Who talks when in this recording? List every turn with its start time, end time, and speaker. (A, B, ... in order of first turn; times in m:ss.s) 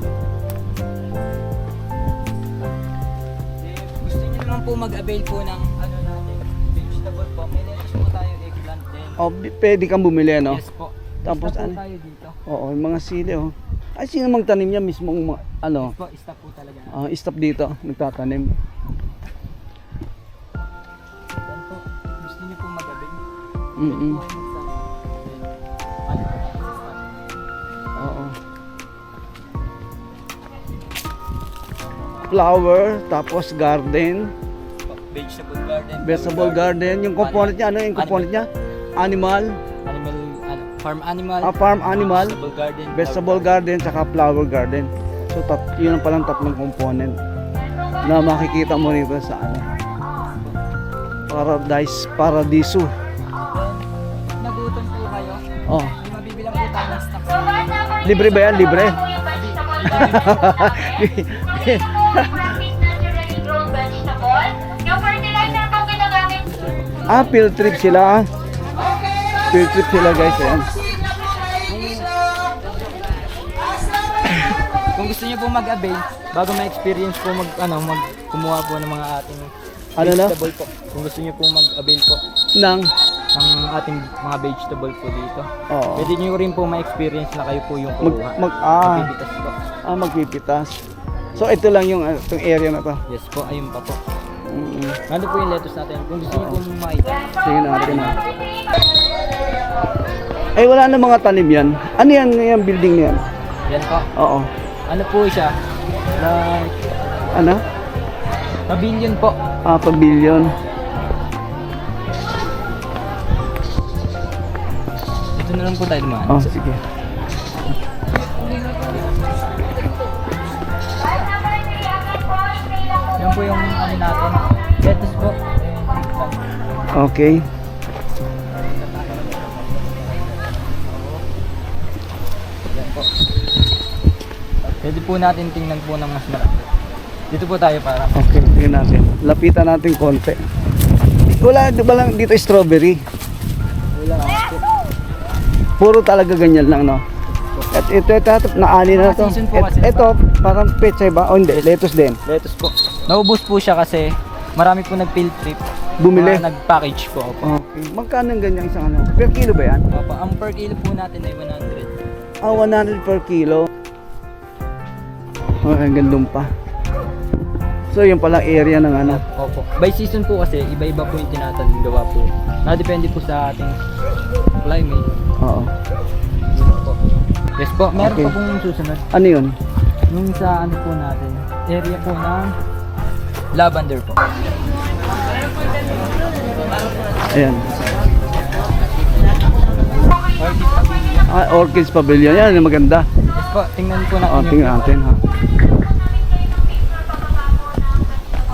0:03.6-0:09.2 A
0:09.2-0:10.6 B
0:10.4-0:12.4 A
0:11.2-0:11.8 B
0:12.5-0:15.9 B
0:15.8-0:17.0 A
0:16.9-0:18.5 B
0:21.4-0:23.2 A
0:23.8-0:24.2 B
0:23.8-0:25.5 A
0:26.1-0:27.2 A
0:28.0-0:28.4 B
0:32.3-0:34.3 B
0:34.9-0:38.3 A
0:36.0-0:39.5 B
0:39.8-0:43.6 A
0:41.4-0:42.4 B
0:42.9-0:47.2 B
0:48.0-0:49.6 B
0:51.3-0:52.9 B
0:53.4-0:55.4 A
0:55.7-0:55.9 B
0:56.0-1:00.5 A
0:58.0-0:59.0 B
0:59.8-1:02.6 B
1:06.4-1:07.5 A
1:07.1-1:08.3 B
1:09.5-1:10.7 B
1:11.6-1:12.2 A
1:14.2-1:22.2 A
1:20.0-1:20.4 B
1:22.6-1:22.9 B
1:23.3-1:29.6 A
1:25.7-1:26.1 B
1:28.0-1:29.1 B
1:29.9-1:30.8 B
1:31.4-1:33.0 B
1:33.1-1:34.0 A
1:34.5-1:35.0 B
1:35.1-1:38.4 A
1:36.3-1:36.6 B
1:37.4-1:38.2 B
1:40.6-1:43.2 B
1:43.7-1:44.1 A
1:44.2-1:44.5 B
1:44.9-1:45.5 A
1:46.2-1:46.8 A
1:47.3-1:47.6 B
1:48.7-1:49.4 A
1:49.6-1:50.5 B
1:55.4-1:56.5 A
1:56.3-1:56.8 B
1:58.2-2:00.1 A
2:03.2-2:06.5 A
2:06.9-2:07.4 B
2:08.6-2:11.2 A
2:12.7-2:13.1 A
2:14.7-2:16.7 A
2:17.3-2:18.5 A
2:18.1-2:20.4 B
2:21.3-2:23.0 B
2:23.9-2:24.6 A
2:25.8-2:27.0 B
2:27.7-2:32.2 B
2:28.9-2:30.1 A
2:31.5-2:31.7 A
2:32.2-2:37.5 A
2:36.0-2:36.4 B
2:37.4-2:39.8 B
2:39.9-2:42.0 A
2:42.4-2:43.7 B
2:45.6-2:46.5 B
2:47.9-2:49.2 B
2:49.0-2:53.8 A
2:54.6-2:55.0 A
2:55.4-2:55.7 B
2:56.5-2:57.0 A
2:57.6-2:59.0 A
2:58.0-2:58.4 B
2:59.1-2:59.5 B
3:00.1-3:02.5 A
3:03.5-3:04.3 A
3:05.7-3:06.1 A
3:07.3-3:07.8 B
3:07.6-3:11.3 A
3:11.3-3:13.0 B
3:13.3-3:15.0 A
3:14.3-3:15.2 B